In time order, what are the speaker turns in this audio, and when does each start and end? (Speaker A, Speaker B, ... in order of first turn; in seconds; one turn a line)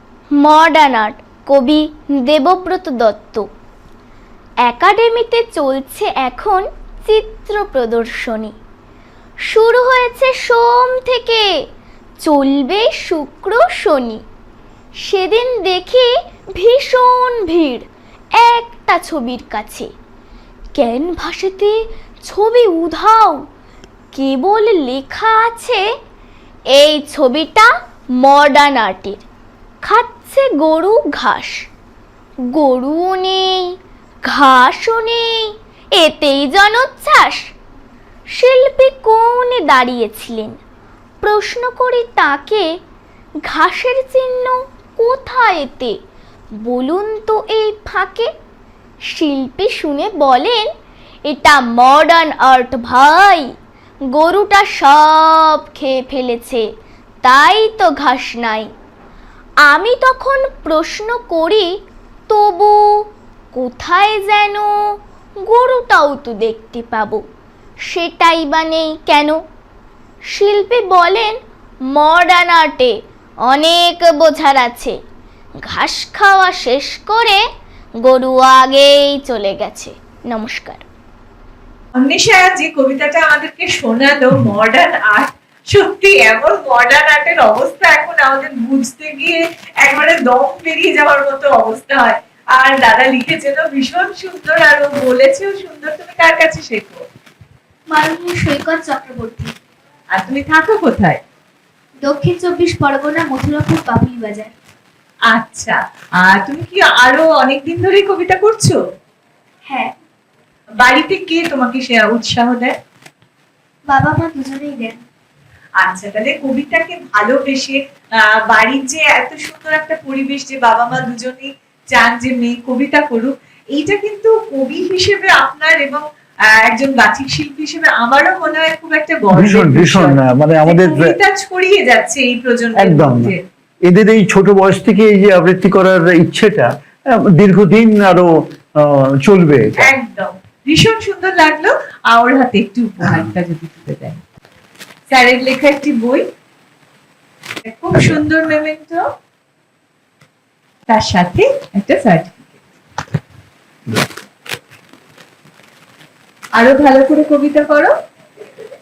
Speaker A: 0.4-3.5
Speaker A: 4.6-8.5
Speaker A: 9.5-11.5
Speaker A: 12.2-14.2
Speaker A: 15.0-17.9
Speaker A: 18.4-19.9
Speaker A: 20.8-21.8
Speaker A: 22.3-23.4
Speaker A: 24.1-25.8
Speaker A: 26.7-27.7
Speaker A: 28.2-29.2
Speaker A: 29.8-31.6
Speaker A: 32.5-33.7
Speaker A: 34.2-37.5
Speaker A: 38.3-40.5
Speaker A: 41.2-42.6
Speaker A: 43.5-46.0
Speaker A: 46.6-48.3
Speaker A: 49.1-50.7
Speaker A: 51.3-53.5
Speaker A: 54.1-56.6
Speaker A: 57.2-58.7
Speaker A: 59.6-61.7
Speaker A: 62.3-62.9
Speaker A: 63.5-64.7
Speaker A: 65.5-67.2
Speaker A: 67.9-69.3
Speaker A: 70.3-71.3
Speaker A: 71.9-72.9
Speaker A: 73.5-75.0
Speaker A: 75.6-77.4
Speaker A: 78.0-80.8
Speaker B: 82.0-97.0
Speaker C: 97.9-99.5
Speaker B: 100.1-101.2
Speaker C: 102.0-104.5
Speaker B: 105.3-108.8
Speaker C: 109.7-109.9
Speaker B: 110.8-112.8
Speaker C: 113.9-115.0
Speaker B: 115.8-117.8
Speaker B: 118.5-126.0
Speaker B: 126.5-133.4
Speaker D: 129.3-131.1
Speaker D: 132.8-133.3
Speaker D: 133.9-139.8
Speaker B: 139.8-144.2
Speaker B: 145.1-146.2
Speaker B: 147.6-149.0
Speaker B: 150.9-152.5
Speaker B: 156.6-157.9